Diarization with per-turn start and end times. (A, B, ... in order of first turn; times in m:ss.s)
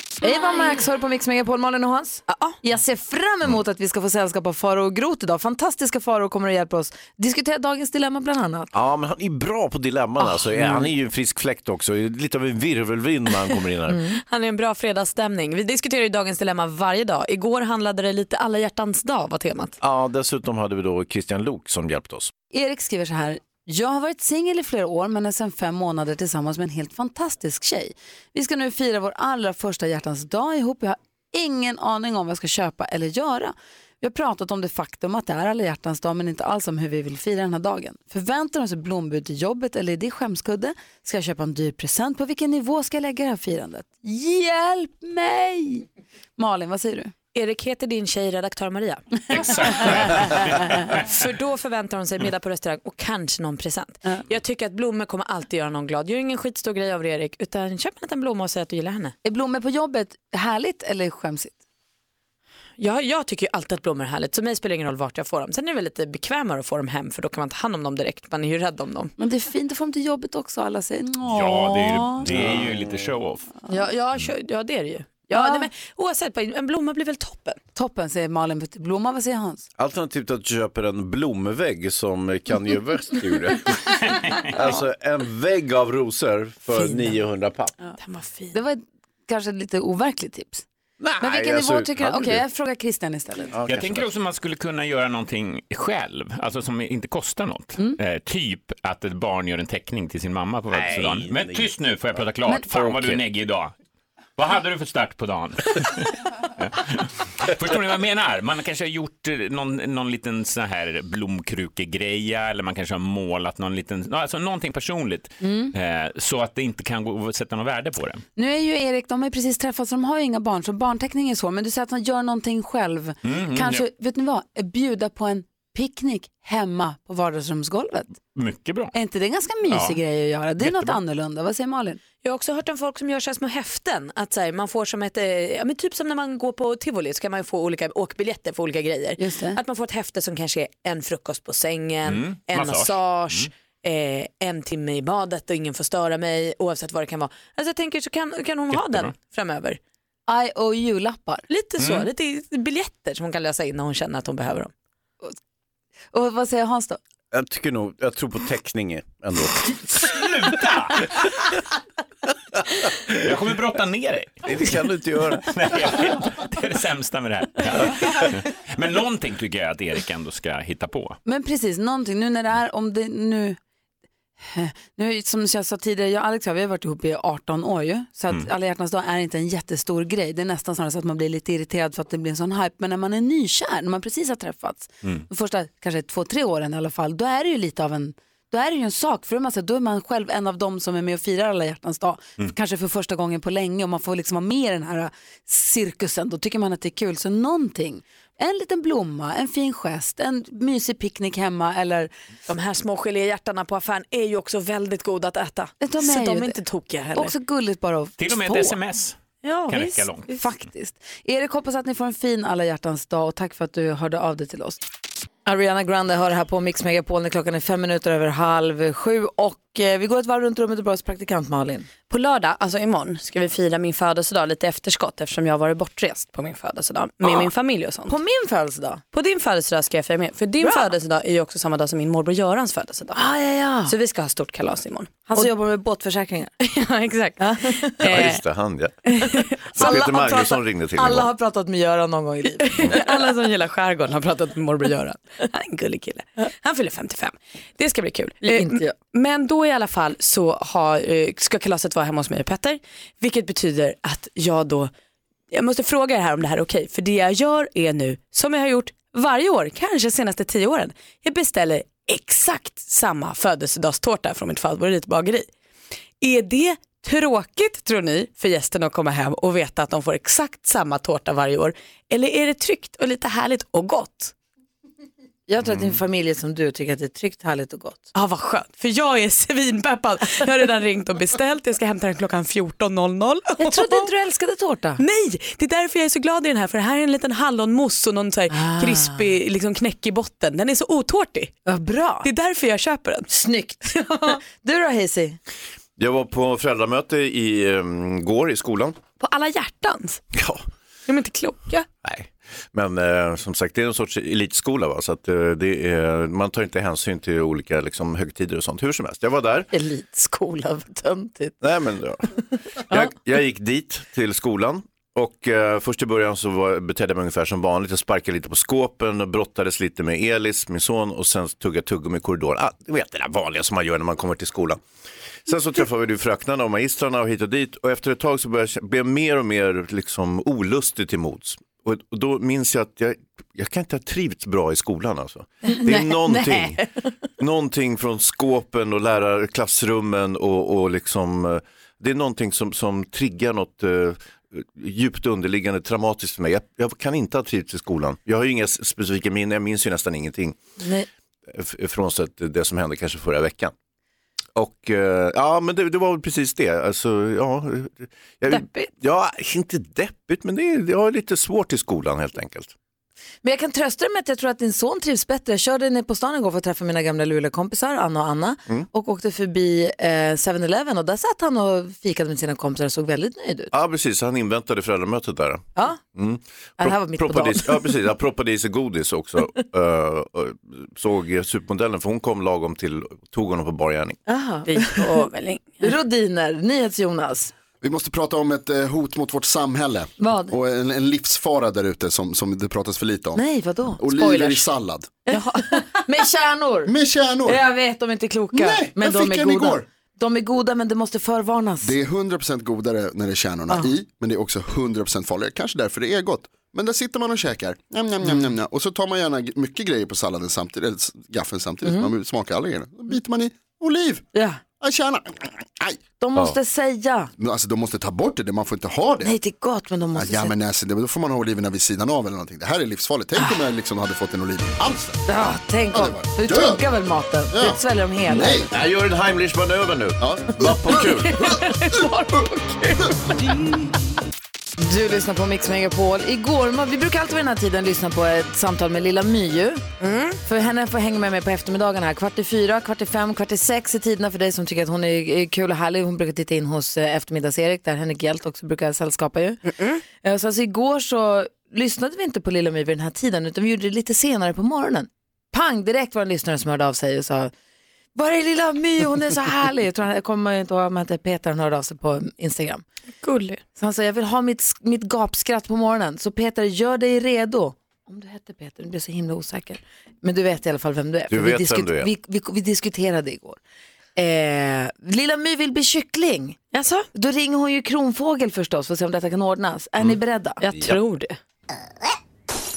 0:00.2-0:08.7 A
0:02.3-0:02.6 B
0:08.7-0:14.0 C
0:10.5-0:10.8 A
0:13.9-0:14.2 A
0:14.1-0:19.8 B
0:19.8-0:22.3 C
0:22.5-0:45.8 D
0:46.4-0:47.1 D
0:47.3-0:50.3 B
0:49.3-0:50.2 E
0:49.5-0:49.9 D
0:50.9-0:59.1 B
0:59.2-1:01.6 D
1:02.8-1:09.1 B
1:09.2-1:12.5 D
1:11.3-1:13.5 E
1:12.2-1:12.7 C
1:13.7-1:17.6 B
1:15.3-1:15.6 D
1:17.7-1:19.6 D
1:19.8-1:27.7 C
1:24.1-1:24.5 E
1:28.0-1:28.5 B
1:28.5-1:30.6 D
1:31.0-1:32.4 C
1:31.2-1:33.6 D
1:33.5-1:34.1 C
1:33.6-1:43.7 E
1:40.7-1:41.7 C
1:42.7-1:43.2 C
1:44.4-1:58.2 E
1:55.4-1:55.7 D
1:58.4-2:08.1 D
2:03.2-2:03.9 E
2:08.3-2:08.9 E
2:08.9-2:12.0 D
2:09.6-2:10.0 E
2:10.6-2:11.0 E
2:12.2-2:29.8 B
2:19.2-2:19.6 D
2:22.0-2:23.5 E
2:28.7-2:29.1 E
2:30.3-2:31.4 D
2:31.5-2:34.7 B
2:31.8-2:32.1 E
2:36.1-2:37.0 D
2:37.3-2:40.1 C
2:40.0-2:41.0 E
2:43.1-2:44.5 E
2:44.4-2:45.8 C
2:45.4-2:51.2 E
2:51.2-2:53.6 D
2:54.4-3:22.1 D
3:22.5-3:27.3 B
3:25.8-3:26.5 D
3:27.1-3:28.8 A
3:28.2-3:30.3 E
3:29.4-3:29.9 B
3:30.4-3:30.8 A
3:30.7-3:34.8 D
3:35.4-3:41.9 A
3:42.1-3:48.2 B
3:48.1-3:49.0 A
3:49.1-3:53.2 B
3:50.6-3:50.9 A
3:53.1-3:53.9 A
3:53.8-3:55.5 B
3:55.3-3:56.5 A
3:56.6-3:58.4 B
3:57.4-3:58.2 A
3:58.1-3:59.0 C
3:59.0-4:00.0 B
3:59.7-4:01.3 C
3:59.7-4:03.1 A
4:02.6-4:14.9 B
4:08.4-4:08.9 A
4:15.5-4:25.5 B
4:26.2-4:34.3 B
4:35.5-4:38.1 A
4:35.6-4:36.0 C
4:38.1-4:44.0 B
4:43.6-4:45.0 A
4:45.0-4:51.5 B
4:48.5-4:49.2 A
4:51.6-4:52.3 A
4:52.2-4:53.3 B
4:53.3-4:55.4 A
4:56.0-4:59.0 C
4:59.2-5:00.2 B
5:00.3-5:00.6 C
5:01.1-5:01.8 B
5:02.0-5:09.7 C
5:09.7-5:11.6 A
5:11.6-5:12.3 C
5:12.9-5:24.8 C
5:25.4-5:36.8 C
5:35.7-5:36.8 A
5:37.4-5:50.6 C
5:50.8-5:51.1 A
5:51.5-5:53.7 C
5:54.6-6:02.7 C
6:03.4-6:13.7 A
6:13.7-6:24.2 C
6:16.8-6:18.0 A
6:24.3-6:25.2 A
6:24.6-6:25.9 B
6:25.8-6:27.5 A
6:27.8-6:33.4 F
6:30.2-6:30.5 A
6:33.3-6:34.6 A
6:34.0-6:35.2 F
6:35.3-6:36.9 A
6:36.8-6:37.6 F
6:37.4-6:41.9 A
6:38.5-6:39.8 F
6:41.8-6:54.2 F
6:48.2-6:48.5 A
6:51.8-6:52.1 A
6:54.3-6:54.6 A
6:54.8-6:56.0 F
6:56.2-6:57.3 A
6:57.4-6:59.3 F
6:59.2-7:00.5 A
7:00.1-7:05.2 F
7:05.3-7:08.6 A
7:05.9-7:06.8 F
7:07.5-7:08.7 F
7:08.7-7:11.4 C
7:10.2-7:12.0 F
7:14.8-7:19.8 A
7:20.0-7:20.4 B
7:20.4-7:29.6 A
7:29.6-7:30.0 B
7:30.2-7:37.5 A
7:38.1-7:42.8 A
7:43.2-7:43.6 B
7:43.8-7:53.6 A
7:51.3-7:52.1 C
7:54.2-8:00.6 A
7:56.7-7:57.1 B
8:00.6-8:01.4 B